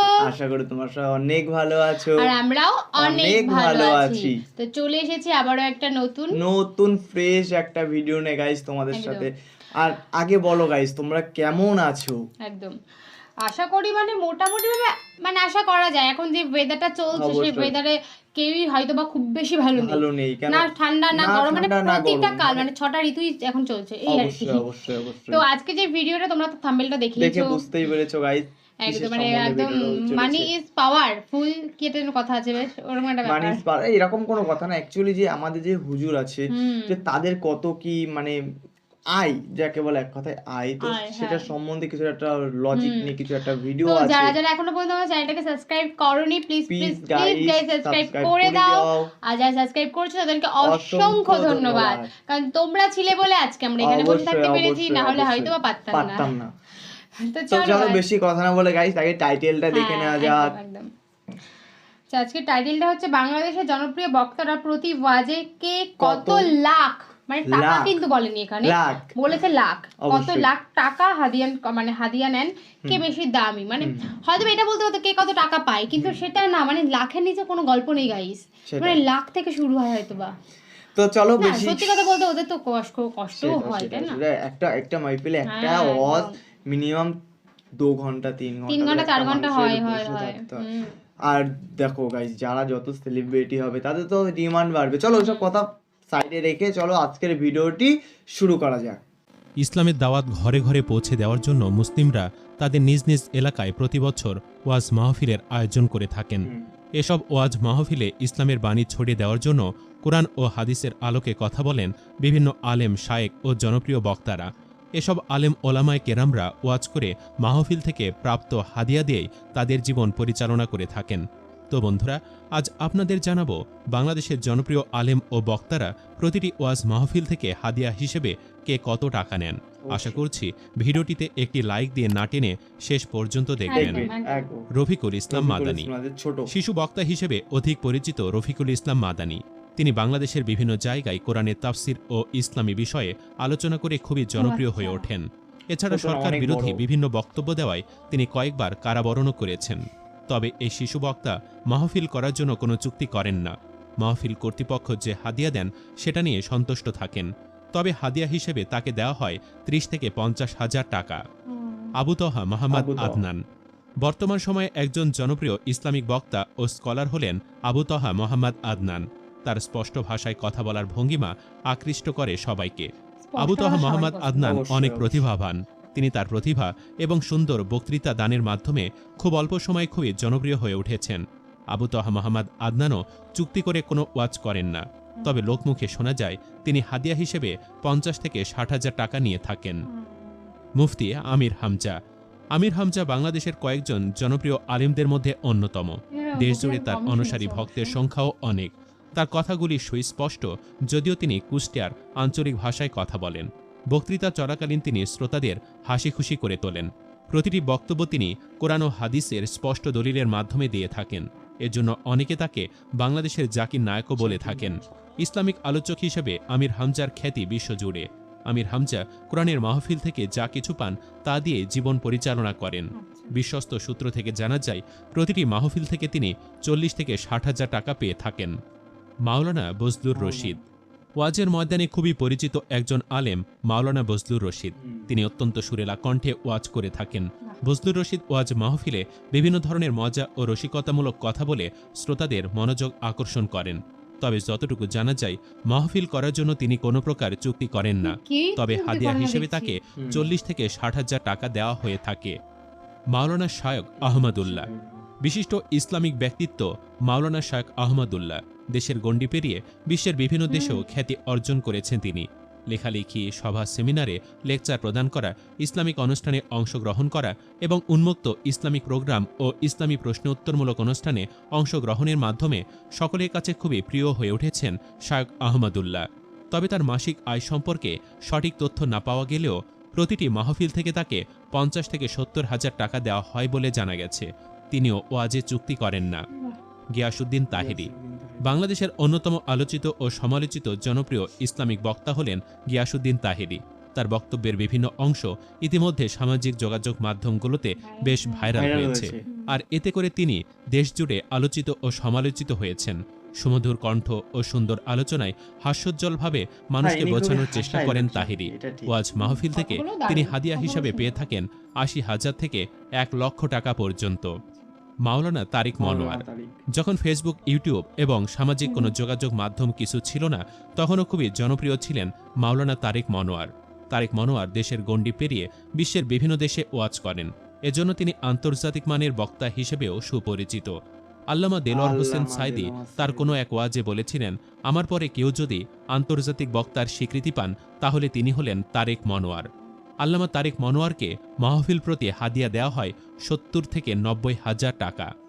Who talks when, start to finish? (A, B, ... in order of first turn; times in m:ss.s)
0:00.2-0:02.3 A
0:02.2-0:06.4 B
0:03.0-0:04.4 A
0:06.3-0:12.2 A
0:08.9-0:09.3 B
0:12.5-0:12.7 B
0:13.4-0:24.6 B
0:17.1-0:17.7 A
0:19.8-0:22.6 A
0:24.1-0:25.4 A
0:25.3-0:27.6 B
0:27.2-0:30.5 A
0:28.8-0:33.6 B
0:33.2-0:38.4 A
0:36.5-0:37.0 B
0:39.1-0:44.4 A
0:40.8-0:41.5 B
0:42.8-0:43.1 B
0:43.9-0:56.3 B
0:46.7-0:49.1 A
0:50.6-0:52.1 A
0:53.8-0:56.5 A
0:57.2-0:58.0 B
0:57.5-1:00.5 A
0:59.7-1:00.9 B
1:02.1-1:20.3 B
1:06.0-1:06.5 A
1:07.5-1:08.0 A
1:08.6-1:09.1 A
1:10.0-1:10.5 A
1:13.8-1:14.1 A
1:15.9-1:16.2 A
1:18.7-1:19.0 A
1:21.0-1:21.9 A
1:21.4-1:24.2 B
1:23.4-1:27.1 A
1:25.5-1:26.3 B
1:27.8-1:30.6 A
1:28.7-1:30.9 B
1:31.3-1:39.0 A
1:35.1-1:35.5 B
1:39.6-1:46.5 C
1:47.0-1:54.4 C
1:55.0-2:14.1 C
2:09.9-2:10.2 A
2:13.7-2:14.4 B
2:13.8-2:14.7 A
2:14.8-2:15.9 C
2:15.3-2:16.5 A
2:16.5-2:29.8 C
2:24.4-2:25.1 B
2:25.9-2:26.8 A
2:30.3-2:41.2 C
2:41.5-2:42.0 B
2:42.0-2:43.4 C
2:42.7-2:43.2 A
2:44.0-3:01.2 C
2:53.3-2:54.6 B
2:54.4-2:55.2 A
3:01.7-3:09.8 C
3:05.2-3:05.6 B
3:09.9-3:10.5 B
3:10.8-3:11.9 C
3:12.6-3:48.5 C
3:16.1-3:18.0 B
3:34.2-3:34.7 A
3:42.9-3:43.4 B
3:49.3-3:50.6 C
3:50.2-3:50.6 A
3:51.2-4:12.4 C
3:54.8-3:55.1 A
4:08.0-4:09.8 B
4:10.0-4:10.3 A
4:13.1-4:14.7 C
4:14.0-4:15.0 A
4:15.2-4:46.2 C
4:20.5-4:21.0 B
4:47.0-4:47.9 C
4:47.5-4:48.5 A
4:48.4-5:14.3 C
4:57.8-4:58.5 B
4:58.6-4:59.2 A
4:59.2-4:59.6 B
5:06.8-5:08.9 A
5:09.2-5:11.3 B
5:14.4-5:14.6 B
5:15.1-5:16.2 C
5:15.8-5:16.5 A
5:16.8-5:30.7 C
5:18.6-5:18.9 B
5:31.3-5:39.5 C
5:31.7-5:33.3 A
5:40.0-5:45.1 C